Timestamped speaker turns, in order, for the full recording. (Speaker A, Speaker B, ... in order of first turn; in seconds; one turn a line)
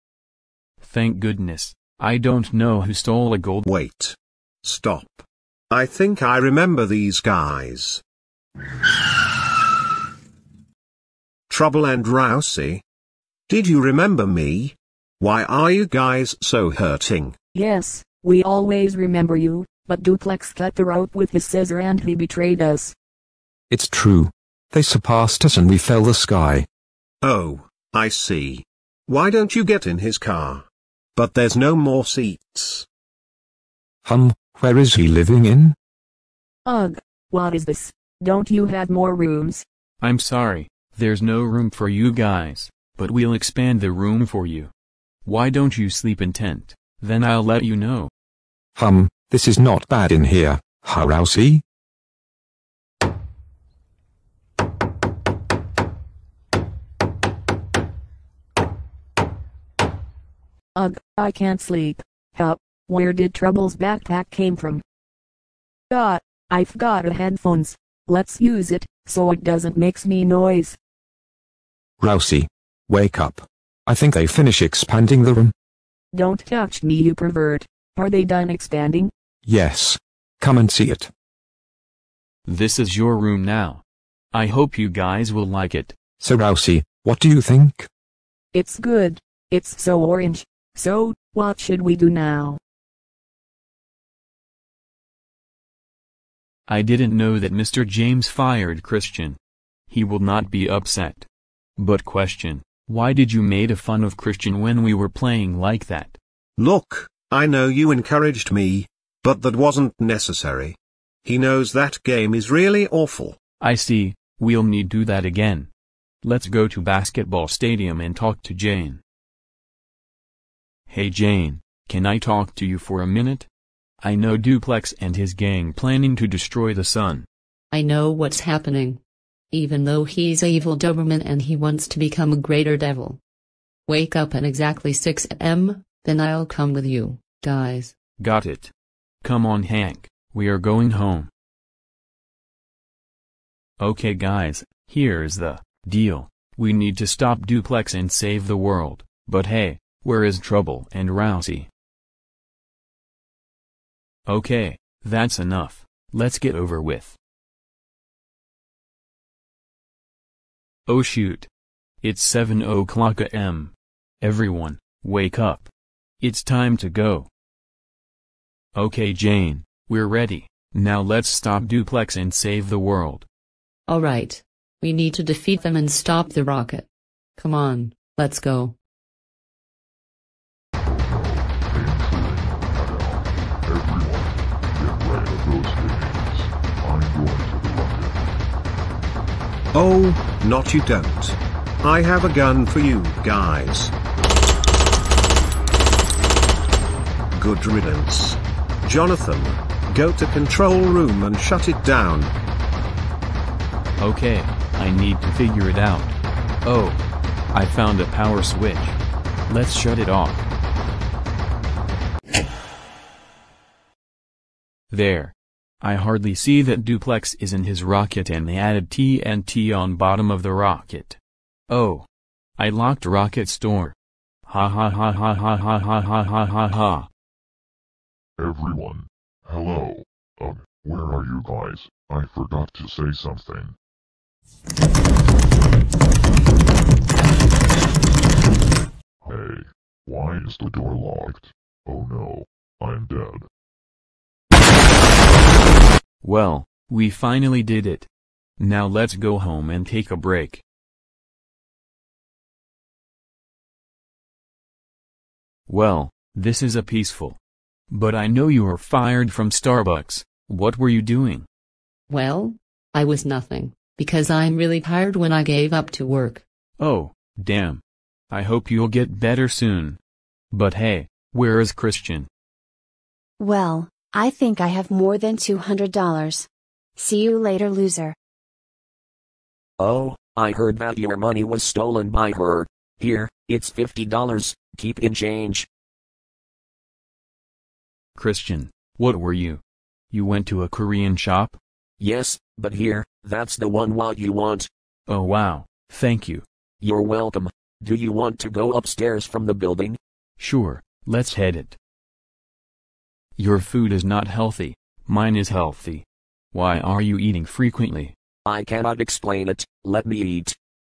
Speaker A: 0.8-3.7
Speaker B: 3.7-8.0
Speaker B: 11.5-12.8
Speaker B: 13.5-17.4
Speaker C: 17.5-22.9
Speaker D: 23.7-26.7
Speaker B: 27.2-32.9
Speaker D: 34.0-35.8
Speaker C: 36.6-39.6
Speaker A: 40.0-44.7
Speaker A: 45.2-48.1
Speaker D: 48.8-51.6
Speaker C: 60.8-64.8
Speaker C: 65.9-70.8
Speaker D: 72.0-75.5
Speaker C: 76.1-79.1
Speaker D: 79.5-81.1
Speaker A: 82.5-83.8
Speaker A: 84.3-86.0
Speaker D: 86.2-87.9
Speaker C: 88.5-92.6
Speaker A: 96.7-106.2
Speaker B: 106.6-113.4
Speaker A: 113.6-115.7
Speaker A: 116.2-119.0
Speaker A: 120.9-123.5
Speaker A: 124.0-127.3
Speaker E: 127.7-129.0
Speaker E: 129.5-133.2
Speaker E: 133.9-137.9
Speaker A: 138.2-141.3
Speaker A: 143.8-151.7
Speaker A: 154.3-157.2
Speaker A: 160.9-161.5
Speaker A: 162.0-165.7
Speaker A: 166.2-167.3
Speaker A: 168.8-173.3
Speaker E: 173.9-176.9
Speaker E: 177.4-178.8
Speaker F: 180.8-188.2
Speaker B: 189.7-193.9
Speaker B: 197.3-202.3
Speaker A: 204.0-207.0
Speaker A: 207.5-210.5
Speaker A: 214.9-221.2
Speaker A: 221.7-223.9
Speaker A: 224.5-227.1
Speaker F: 228.4-233.8
Speaker F: 239.2-243.5
Speaker A: 246.2-250.6
Speaker A: 255.7-257.4
Speaker A: 257.9-261.5
Speaker E: 262.1-266.4
Speaker A: 266.8-272.3
Speaker G: 273.4-278.2
Speaker H: 279.8-285.7
Speaker A: 288.2-291.6
Speaker H: 292.0-294.7
Speaker A: 295.1-296.4
Speaker H: 296.8-300.0
Speaker A: 300.4-301.8
Speaker A: 303.4-308.1
Speaker H: 308.5-310.6